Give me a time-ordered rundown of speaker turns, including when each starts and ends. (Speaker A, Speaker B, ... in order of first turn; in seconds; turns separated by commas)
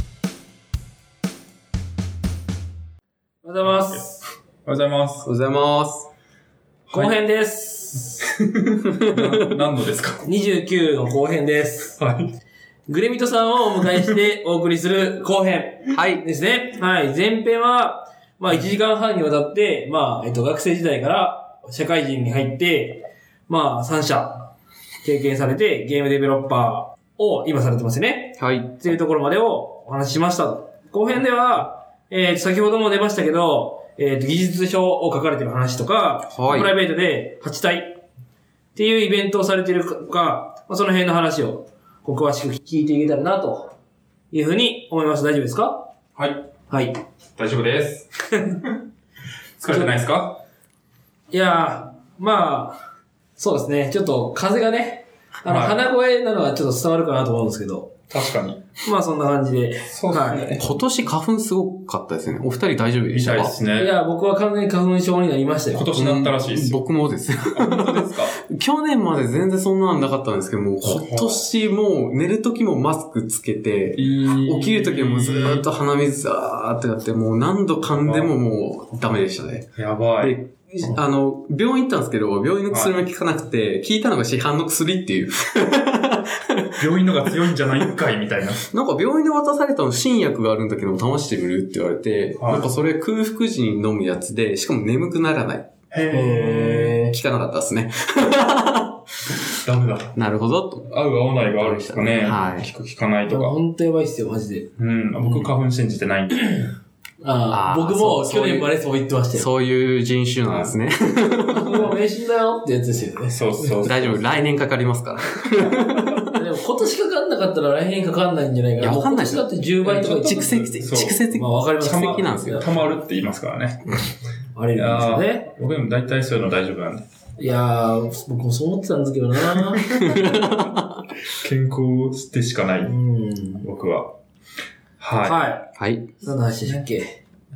Speaker A: 3.4-4.2, Speaker B: 3.6-5.3, Speaker C: 5.2-6.1, Speaker B: 6.9-7.1, Speaker A: 6.9-8.3, Speaker B: 8.4-10.2, Speaker C: 8.9-9.5, Speaker A: 10.2-12.0, Speaker B: 12.0-12.3, Speaker A: 12.9-24.5, Speaker C: 15.9-16.2, Speaker A: 25.0-38.0, Speaker C: 28.4-28.9, Speaker C: 36.3-36.7, Speaker A: 38.7-43.7, Speaker A: 44.3-45.9, Speaker B: 46.1-46.4, Speaker A: 46.7-47.0, Speaker B: 47.4-48.7, Speaker B: 49.6-50.4, Speaker A: 49.7-49.9, Speaker A: 51.3-52.8, Speaker A: 53.4-57.9, Speaker B: 55.5-55.8, Speaker B: 58.1-58.6, Speaker A: 58.8-60.6, Speaker B: 59.9-60.7, Speaker C: 60.6-63.5, Speaker B: 63.1-63.9, Speaker A: 63.8-65.8, Speaker B: 65.7-66.8, Speaker C: 65.9-79.7, Speaker B: 67.4-68.4, Speaker B: 70.8-71.4, Speaker B: 74.0-75.7, Speaker B: 78.0-78.3, Speaker B: 79.8-81.0, Speaker C: 80.2-86.9, Speaker B: 82.7-83.0, Speaker B: 86.8-88.7, Speaker C: 88.7-95.7, Speaker B: 92.4-92.7, Speaker B: 95.9-97.0, Speaker A: 96.1-97.1, Speaker C: 96.5-99.0, Speaker B: 99.2-100.2, Speaker C: 100.2-100.9, Speaker B: 100.8-103.6, Speaker C: 101.6-102.7, Speaker A: 103.3-104.7, Speaker B: 104.8-106.7, Speaker A: 107.2-109.5, Speaker C: 107.5-108.7, Speaker C: 109.3-111.9, Speaker B: 110.5-110.7, Speaker A: 111.5-113.7, Speaker B: 113.3-114.3, Speaker C: 113.8-116.4, Speaker A: 116.3-120.8, Speaker C: 118.8-122.7, Speaker B: 120.5-121.2, Speaker A: 121.3-122.7, Speaker B: 121.8-124.0, Speaker A: 124.5-125.5, Speaker B: 124.7-127.0, Speaker A: 127.4-129.9, Speaker C: 129.9-131.1, Speaker B: 130.0-130.3, Speaker B: 131.2-132.9, Speaker A: 132.8-133.7, Speaker B: 133.6-134.1, Speaker B: 135.0-135.4, Speaker A: 135.2-135.6, Speaker C: 135.8-136.2, Speaker A: 136.2-137.1